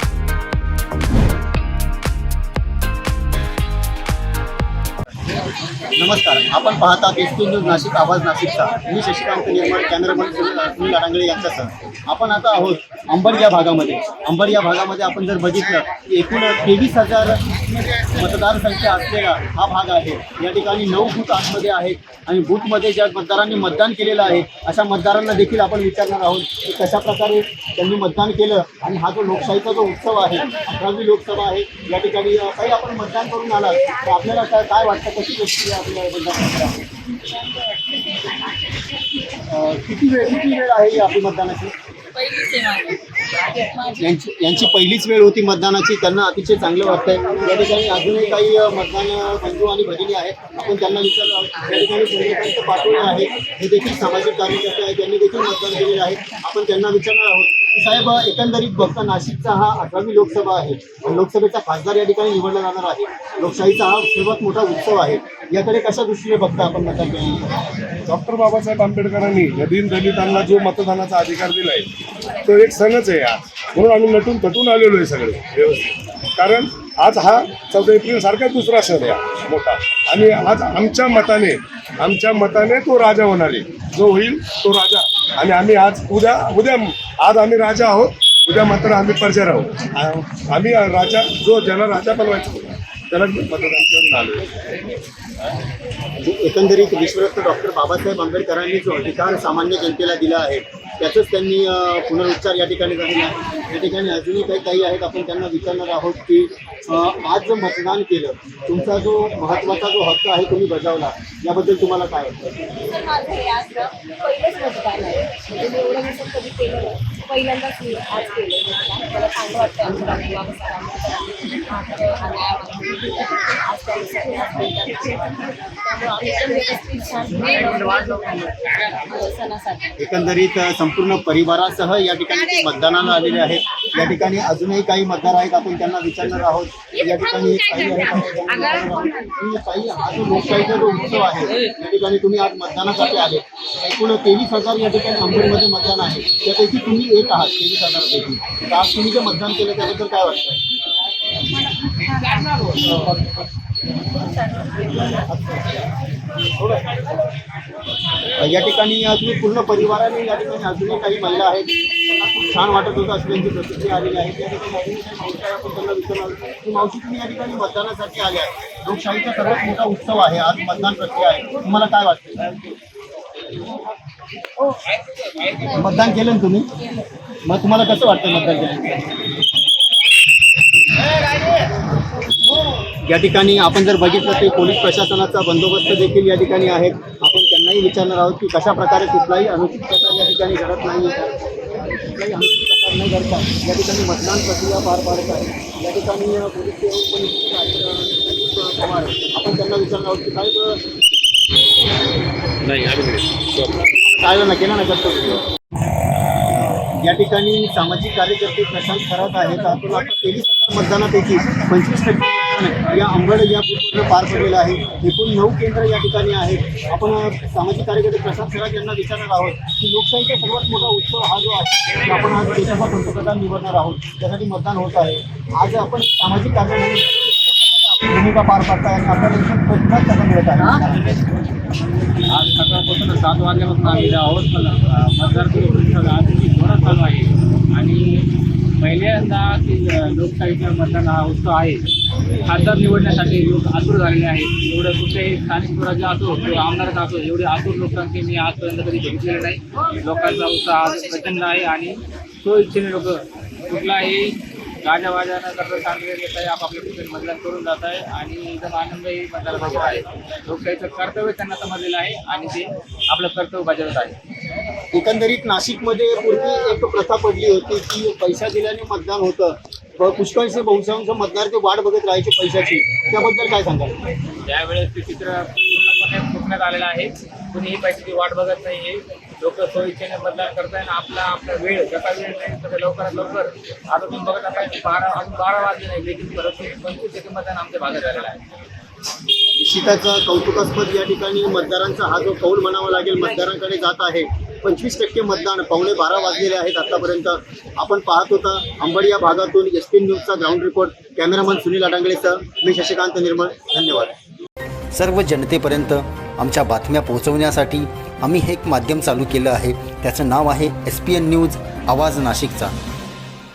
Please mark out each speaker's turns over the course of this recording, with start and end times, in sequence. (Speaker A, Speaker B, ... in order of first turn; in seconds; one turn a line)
Speaker A: 5.9-36.9
Speaker A: 39.3-41.7
Speaker A: 43.6-67.6
Speaker B: 68.1-71.9
Speaker B: 72.4-94.5
Speaker A: 96.2-112.6
Speaker C: 112.8-129.9
Speaker A: 130.0-150.6
Speaker C: 152.2-152.6
Speaker A: 152.7-153.4
Speaker A: 155.1-155.7
Speaker A: 156.6-156.9
Speaker A: 158.4-172.7
Speaker A: 175.6-176.7
Speaker A: 177.4-179.1
Speaker A: 183.0-200.8
Speaker A: 203.5-205.5
Speaker A: 206.8-231.1
Speaker D: 230.7-238.3
Speaker D: 238.8-241.9
Speaker D: 242.5-264.2
Speaker A: 264.9-274.0
Speaker D: 274.5-288.4
Speaker A: 289.6-304.2
Speaker E: 304.9-312.8